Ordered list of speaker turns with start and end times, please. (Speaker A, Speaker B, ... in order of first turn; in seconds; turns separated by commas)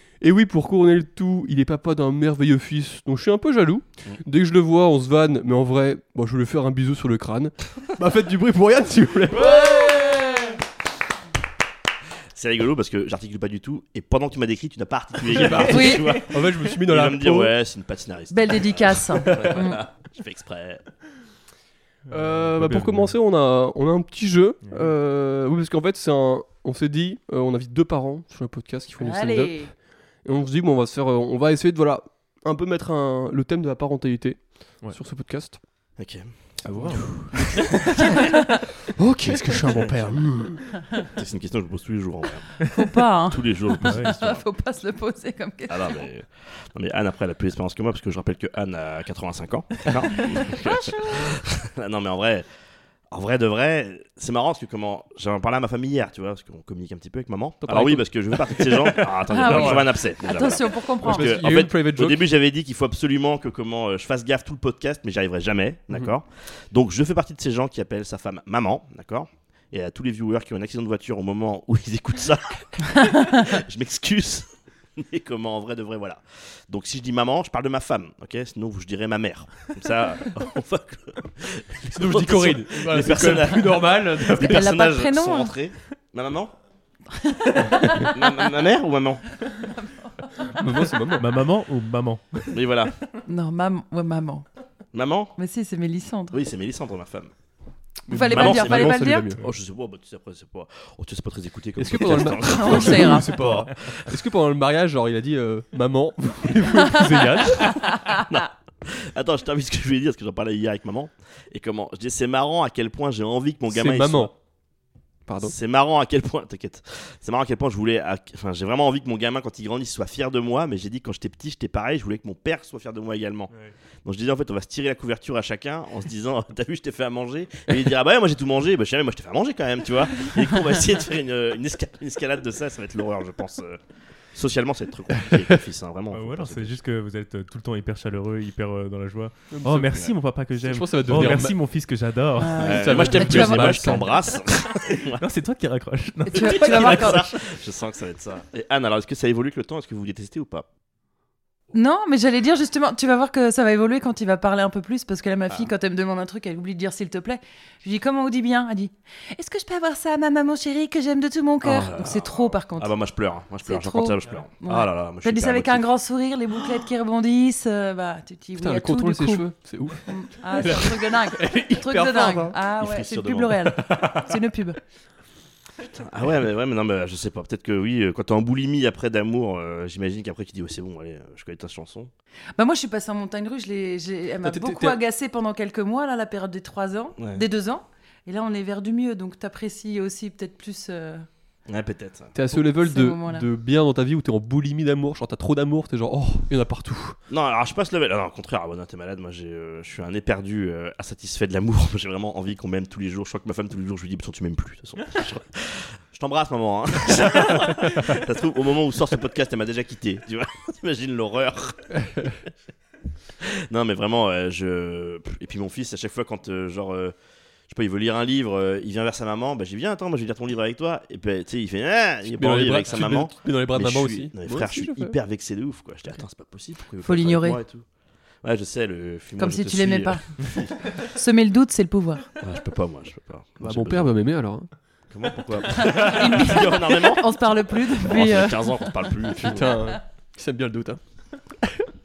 Speaker A: 0.2-9.6, Speaker B: 9.3-10.4, Speaker C: 9.4-10.6, Speaker D: 12.3-20.8, Speaker A: 15.3-17.5, Speaker C: 15.7-16.2, Speaker C: 18.3-19.9, Speaker A: 19.2-19.6, Speaker B: 22.1-23.1, Speaker A: 22.1-35.6, Speaker B: 24.6-24.9, Speaker C: 29.0-29.7, Speaker D: 36.0-38.0, Speaker B: 36.6-37.3, Speaker A: 36.7-38.4, Speaker C: 38.1-38.4, Speaker A: 39.0-40.8, Speaker D: 39.7-40.1, Speaker D: 41.1-44.5, Speaker C: 42.7-46.0, Speaker B: 43.8-44.1, Speaker D: 45.7-52.5, Speaker C: 50.6-51.3, Speaker D: 53.1-86.5, Speaker A: 57.6-58.7, Speaker B: 58.8-59.9, Speaker C: 59.3-61.4, Speaker A: 61.0-62.2, Speaker A: 81.9-84.7, Speaker C: 84.2-85.5, Speaker C: 87.1-88.5, Speaker A: 87.6-88.0, Speaker D: 88.0-89.2, Speaker C: 89.4-90.3, Speaker A: 90.5-91.5, Speaker B: 91.1-92.6, Speaker D: 92.5-92.9, Speaker C: 93.2-94.5, Speaker D: 94.9-95.4, Speaker C: 95.4-96.4, Speaker D: 96.3-97.3, Speaker C: 98.1-99.3, Speaker A: 98.1-99.4, Speaker D: 98.3-104.0, Speaker A: 101.8-107.9, Speaker C: 102.4-103.4, Speaker C: 106.9-108.3, Speaker D: 108.2-114.3, Speaker A: 113.7-114.3, Speaker A: 115.3-115.5, Speaker D: 115.4-123.5, Speaker D: 124.0-133.8, Speaker D: 134.3-136.8, Speaker B: 136.1-142.7, Speaker A: 139.5-139.9, Speaker A: 140.6-141.6, Speaker C: 142.4-144.1, Speaker D: 142.6-145.2, Speaker A: 142.6-144.1, Speaker B: 144.8-147.4, Speaker D: 146.3-150.7, Speaker C: 146.3-147.3, Speaker C: 151.7-162.9, Speaker D: 161.6-165.9, Speaker C: 163.6-169.5, Speaker A: 168.6-172.6, Speaker C: 170.1-174.8, Speaker D: 172.8-174.1, Speaker D: 175.8-182.1, Speaker C: 182.6-191.3, Speaker A: 184.4-185.0, Speaker D: 187.2-187.4, Speaker D: 191.7-192.4, Speaker A: 192.3-197.2, Speaker C: 192.6-193.5, Speaker D: 197.3-212.4, Speaker D: 213.4-217.2, Speaker D: 217.7-227.9, Speaker A: 222.4-225.2, Speaker C: 227.0-227.6, Speaker D: 228.4-231.0, Speaker C: 229.4-232.3, Speaker D: 232.4-234.1, Speaker A: 233.6-234.7, Speaker D: 235.1-239.8, Speaker C: 235.7-239.9, Speaker A: 239.4-241.0